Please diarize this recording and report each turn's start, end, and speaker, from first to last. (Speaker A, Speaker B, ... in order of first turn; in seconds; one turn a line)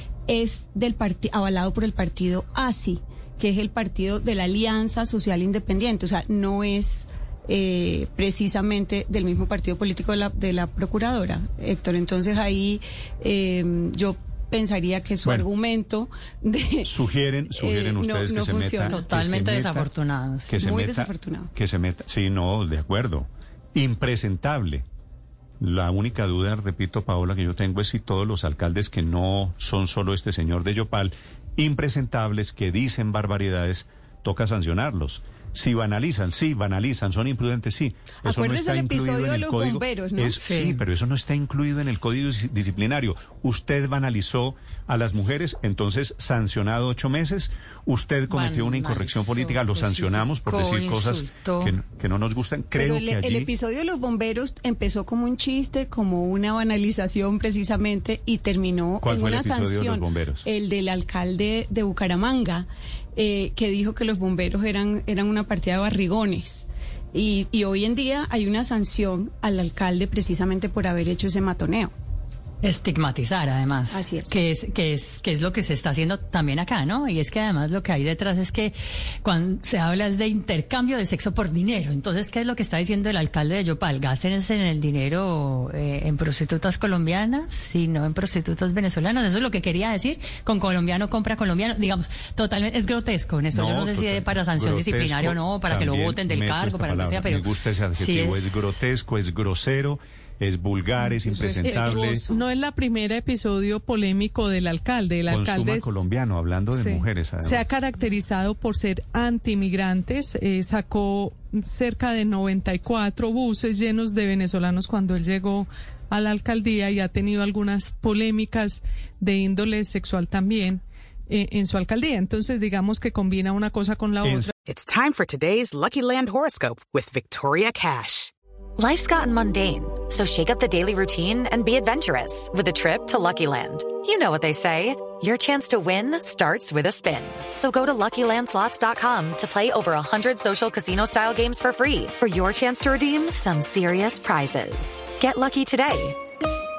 Speaker A: 0.3-17.0
Speaker B: 15.2-15.5
Speaker B: 16.8-19.9
Speaker A: 17.5-19.0
Speaker C: 18.9-20.5
Speaker B: 20.4-24.8
Speaker A: 20.5-21.5
Speaker B: 25.6-53.5
Speaker A: 38.2-40.8
Speaker C: 40.4-40.7
Speaker C: 48.3-51.7
Speaker A: 52.7-71.9
Speaker B: 59.0-60.5
Speaker C: 72.6-97.5
Speaker A: 73.9-74.4
Speaker B: 93.5-102.2
Speaker C: 98.0-98.8
Speaker A: 101.0-102.4
Speaker D: 101.6-106.0
Speaker B: 105.3-107.7
Speaker D: 106.7-124.5
Speaker B: 124.2-124.5
Speaker E: 124.7-128.3
Speaker F: 128.8-146.2